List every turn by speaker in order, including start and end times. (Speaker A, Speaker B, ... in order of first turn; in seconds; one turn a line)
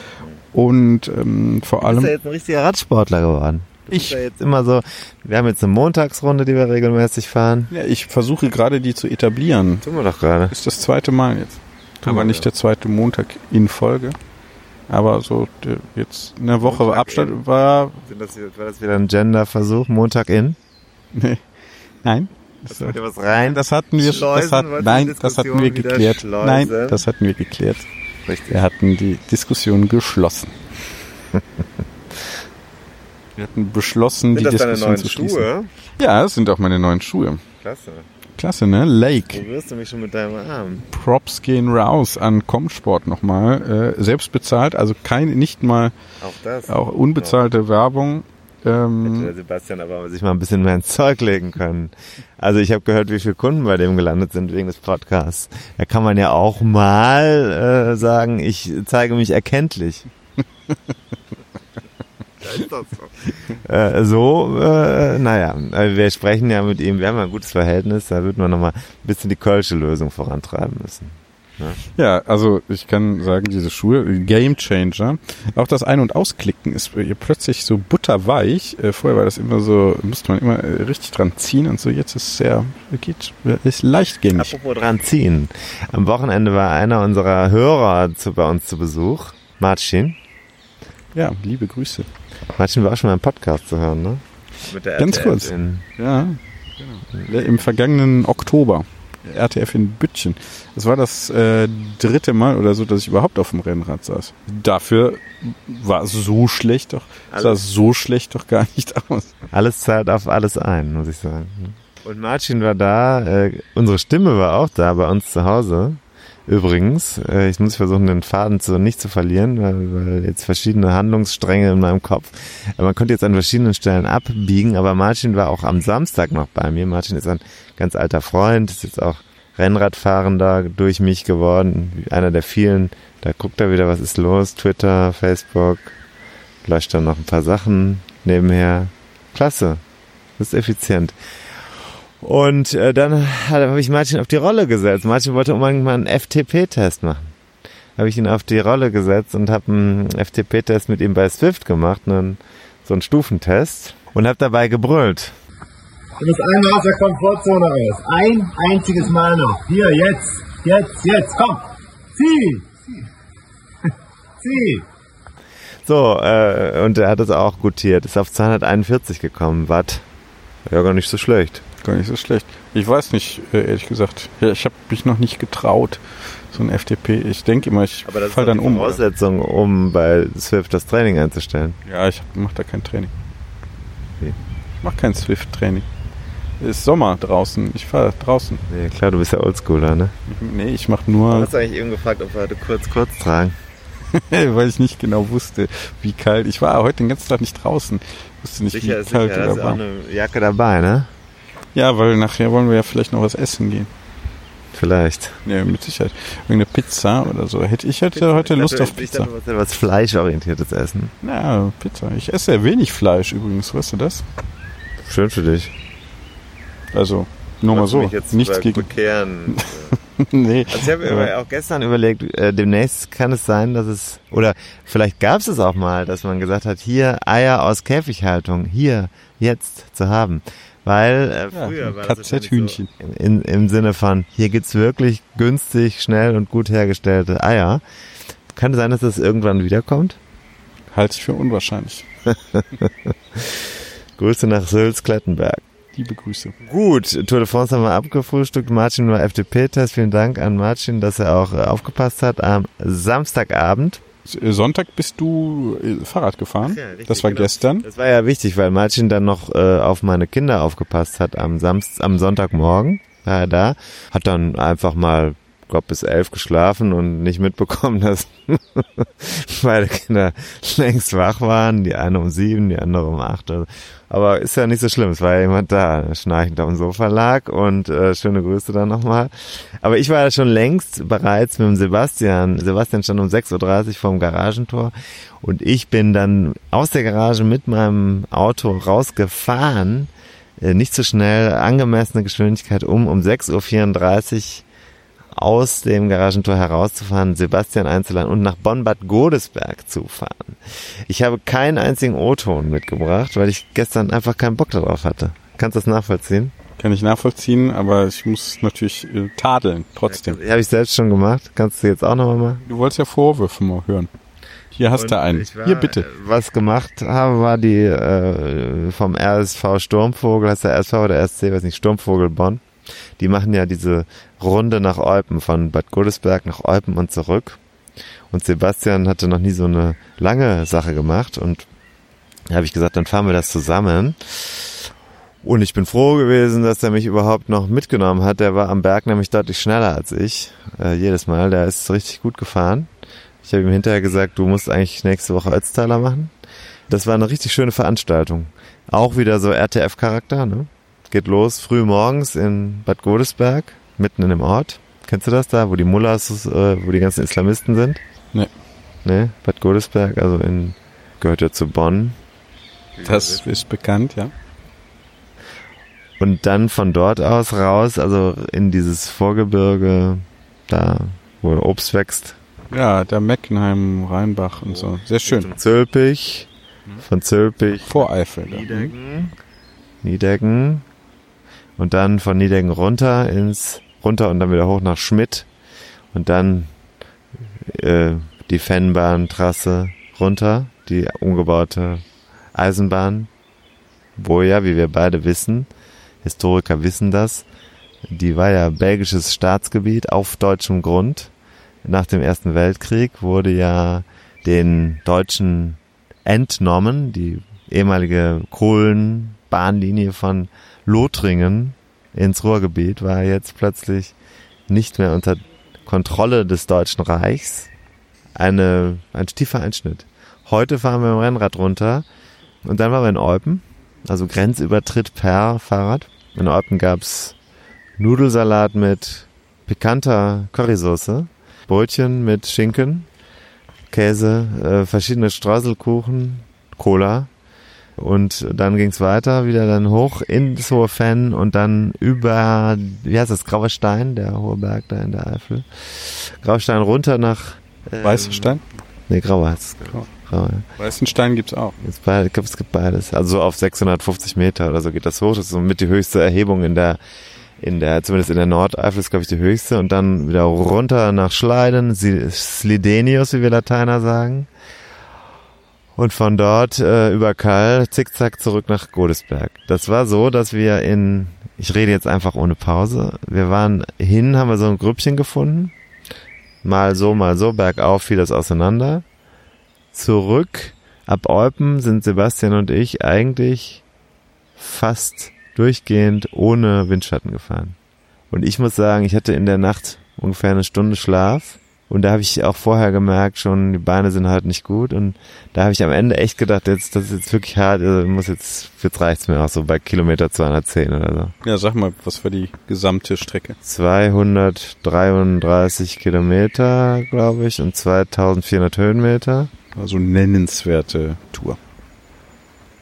Speaker A: 0.5-2.1
Speaker B: 1.8-7.7
Speaker A: 3.9-4.2
Speaker A: 7.7-9.8
Speaker B: 9.8-10.5
Speaker A: 10.5-14.2
Speaker B: 12.1-12.5
Speaker A: 14.9-18.0
Speaker B: 16.6-17.4
Speaker B: 18.0-20.6
Speaker A: 21.1-21.4
Speaker A: 22.0-27.9
Speaker B: 22.7-27.1
Speaker B: 28.3-28.6
Speaker A: 28.5-30.6
Speaker A: 33.4-37.4
Speaker B: 34.3-35.7
Speaker B: 37.6-38.1
Speaker A: 38.4-39.4
Speaker B: 39.3-40.9
Speaker A: 40.9-46.0
Speaker B: 46.2-47.4
Speaker A: 46.7-49.3
Speaker B: 49.0-60.1
Speaker B: 62.4-71.8
Speaker A: 72.0-84.5
Speaker B: 84.3-90.2
Speaker A: 91.2-92.1
Speaker B: 92.5-95.9
Speaker A: 95.0-109.3
Speaker B: 107.3-107.6
Speaker B: 109.5-136.0
Speaker B: 136.6-139.8
Speaker B: 140.4-141.2
Speaker B: 142.2-147.3
Speaker B: 148.0-155.4
Speaker C: 156.2-162.9
Speaker C: 164.4-164.9
Speaker B: 165.8-170.1
Speaker B: 170.7-171.6
Speaker A: 171.8-179.0
Speaker B: 178.1-181.8
Speaker A: 181.9-183.1
Speaker A: 184.8-185.9
Speaker A: 186.6-188.6
Speaker B: 188.7-190.2
Speaker A: 190.3-191.5
Speaker B: 191.3-193.6
Speaker A: 194.1-199.8
Speaker B: 198.7-201.1
Speaker A: 201.8-203.9
Speaker B: 204.7-205.4
Speaker A: 205.4-209.3
Speaker B: 208.1-211.1
Speaker A: 211.2-214.2
Speaker B: 215.0-215.7
Speaker A: 216.9-218.9
Speaker B: 217.7-219.9
Speaker A: 219.5-221.3
Speaker B: 220.7-237.8
Speaker A: 231.5-232.9
Speaker B: 238.5-240.2
Speaker A: 240.9-242.1
Speaker B: 242.3-245.6
Speaker A: 245.9-246.6
Speaker B: 246.6-254.0
Speaker A: 254.3-257.9
Speaker B: 256.6-294.6
Speaker B: 295.3-306.6
Speaker A: 306.8-310.4
Speaker B: 310.1-312.6
Speaker A: 312.7-314.1
Speaker A: 314.7-316.0
Speaker B: 314.9-322.6
Speaker B: 323.2-327.6
Speaker B: 328.3-331.7
Speaker B: 332.5-334.9
Speaker B: 335.4-342.9
Speaker B: 343.4-346.3
Speaker B: 346.9-358.0
Speaker B: 359.1-362.2
Speaker B: 363.0-363.6
Speaker A: 363.0-364.3
Speaker B: 366.2-372.4
Speaker A: 372.7-375.5
Speaker B: 374.6-376.5
Speaker B: 377.0-379.4
Speaker A: 377.9-378.9
Speaker B: 380.0-380.9
Speaker B: 381.8-385.5
Speaker B: 386.1-386.7
Speaker B: 387.6-393.3
Speaker B: 394.2-395.7
Speaker B: 396.2-397.5
Speaker B: 398.1-401.3
Speaker B: 401.9-414.1
Speaker B: 414.7-417.7
Speaker B: 418.4-422.1
Speaker B: 422.6-427.4
Speaker B: 428.0-433.1
Speaker B: 433.9-437.3
Speaker B: 438.0-450.7
Speaker A: 448.0-448.6
Speaker A: 450.8-451.8
Speaker B: 451.8-457.0
Speaker B: 457.6-464.5
Speaker B: 466.0-475.7
Speaker B: 476.6-479.1
Speaker B: 479.9-483.8
Speaker B: 484.6-487.8
Speaker B: 488.3-501.3
Speaker A: 501.4-503.6
Speaker B: 503.6-509.5
Speaker A: 509.8-511.6